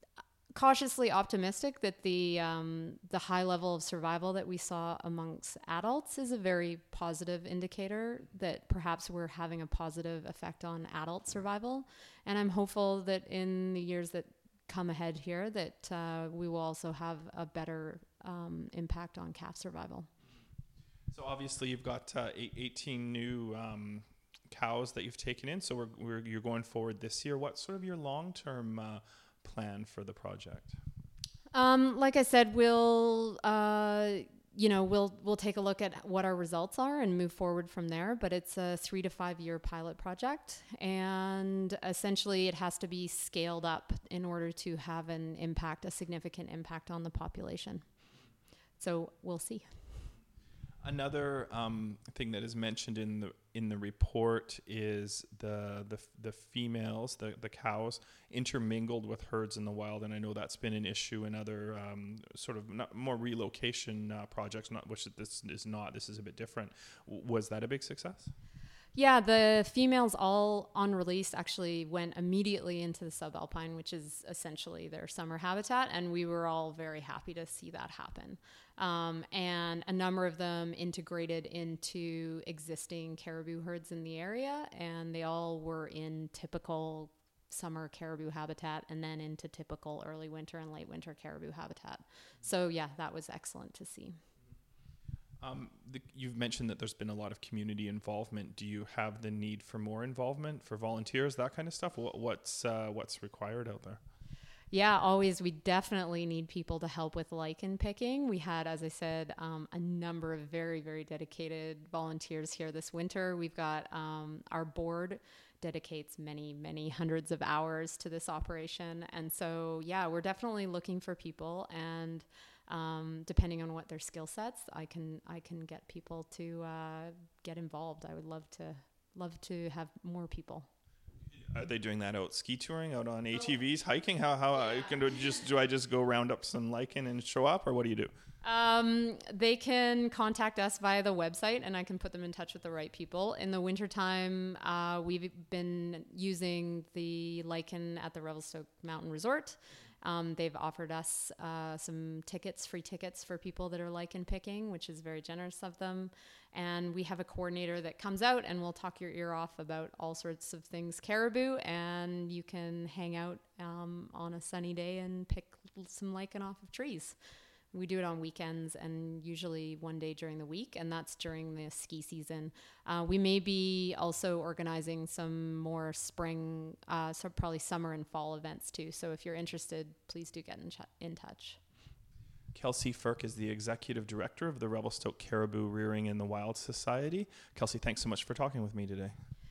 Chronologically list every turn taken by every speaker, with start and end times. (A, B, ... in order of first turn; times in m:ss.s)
0:00.5-0:20.1 A
0:21.1-0:30.8 B
0:31.5-0:47.8 A
0:48.8-0:49.8 A
0:50.8-1:08.3 B
1:08.9-1:34.2 A
1:35.4-1:44.0 B
1:44.7-2:10.7 A
2:11.5-2:18.1 B
2:18.4-2:47.2 A
2:47.7-3:01.6 A
3:02.5-3:09.1 B